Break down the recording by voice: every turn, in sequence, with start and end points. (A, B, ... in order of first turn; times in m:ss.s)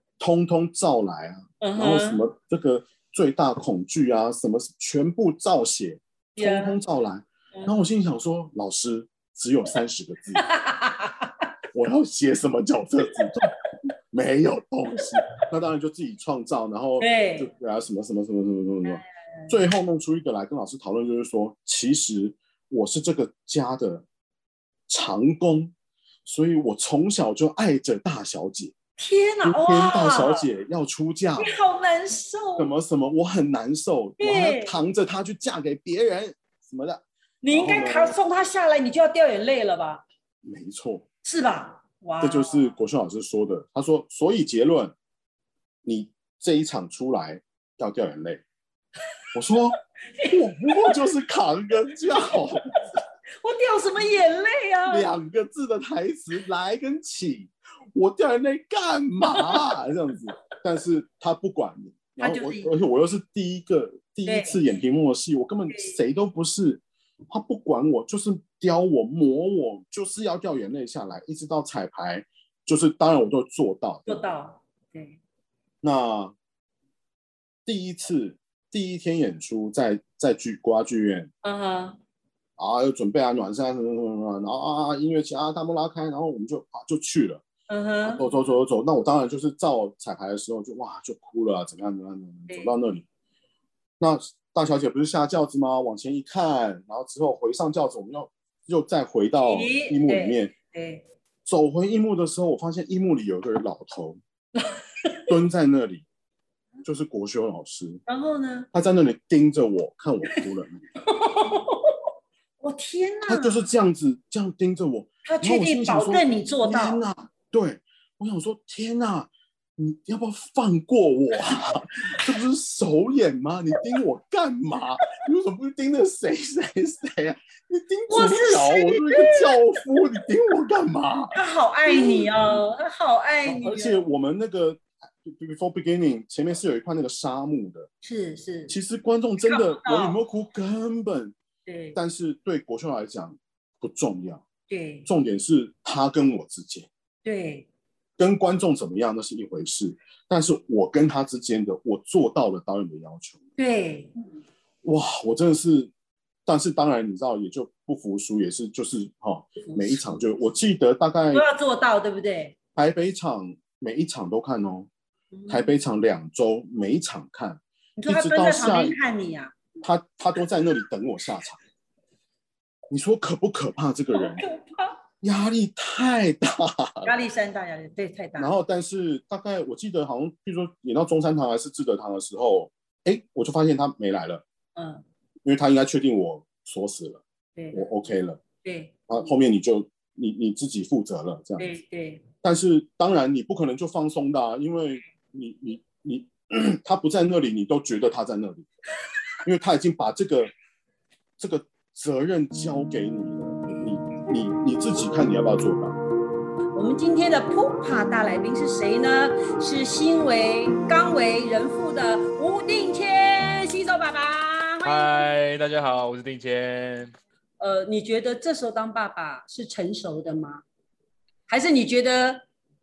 0:00.2-0:10.4 A
0:01.6-0:02.2 B
0:06.4-0:06.8 B
0:07.5-0:07.8 B
0:10.4-0:11.3 B
0:11.7-0:13.5 A
0:14.1-0:24.0 A
0:17.0-0:17.5 B
0:24.9-0:25.7 A
0:26.2-0:28.7 A
0:29.0-0:30.4 B
0:29.4-0:31.6 A
0:31.4-0:32.7 B
0:32.6-0:38.1 A
0:34.2-0:34.8 B
0:37.4-0:40.0 B
0:40.4-0:41.0 A
0:41.2-0:42.7 B
0:42.2-0:44.9 A
0:45.8-0:48.4 A
0:49.3-0:52.8 A
0:50.2-0:51.0 B
0:53.4-0:55.1 B
0:54.9-1:14.2 A
0:59.3-0:59.7 B
1:02.2-1:02.7 B
1:04.2-1:04.6 B
1:05.7-1:05.9 B
1:14.1-1:15.2 B
1:15.8-1:16.3 A
1:17.6-1:21.3 A
1:21.4-1:22.0 B
1:22.6-1:27.4 A
1:27.7-1:28.3 B
1:28.0-1:33.0 A
1:32.5-1:32.8 B
1:34.0-1:40.5 A
1:39.4-1:41.0 B
1:41.4-1:44.2 A
1:44.7-1:45.2 B
1:45.3-1:46.0 A
1:46.8-1:48.0 A
1:48.1-1:48.7 B
1:48.7-1:50.9 A
1:51.1-1:51.8 B
1:52.6-1:53.6 B
1:53.3-2:12.5 A
1:55.2-1:57.0 B
2:08.1-2:09.5 B
2:11.3-2:14.0 B
2:13.4-2:17.9 A
2:18.0-2:18.8 B
2:18.7-2:21.3 A
2:19.4-2:20.2 B
2:21.7-2:22.0 B
2:21.9-2:24.4 A
2:24.7-2:25.1 B
2:25.0-2:26.9 A
2:27.2-2:27.6 B
2:28.2-2:33.4 A
2:33.6-2:34.1 B
2:34.8-2:35.9 A
2:36.4-2:41.4 A
2:39.6-2:40.3 B
2:41.3-2:42.5 B
2:42.8-2:44.9 A
2:45.3-2:45.7 B
2:45.5-2:49.0 A
2:48.0-2:49.7 B
2:49.8-2:51.6 A
2:52.9-2:54.4 A
2:54.1-2:54.9 B
2:55.2-2:57.1 A
2:57.0-2:58.5 B
2:58.4-3:04.4 A
3:04.8-3:05.0 B
3:05.4-3:07.2 A
3:07.6-3:07.8 B
3:07.7-3:08.4 A
3:08.6-3:09.1 B
3:09.1-3:11.7 A
3:11.6-3:12.2 B
3:12.4-3:18.7 A
3:19.4-3:20.5 A
3:21.4-3:26.0 A
3:23.7-3:23.9 B
3:26.7-3:35.2 B
3:34.8-3:37.1 C
3:37.6-3:40.6 B
3:41.5-3:42.4 B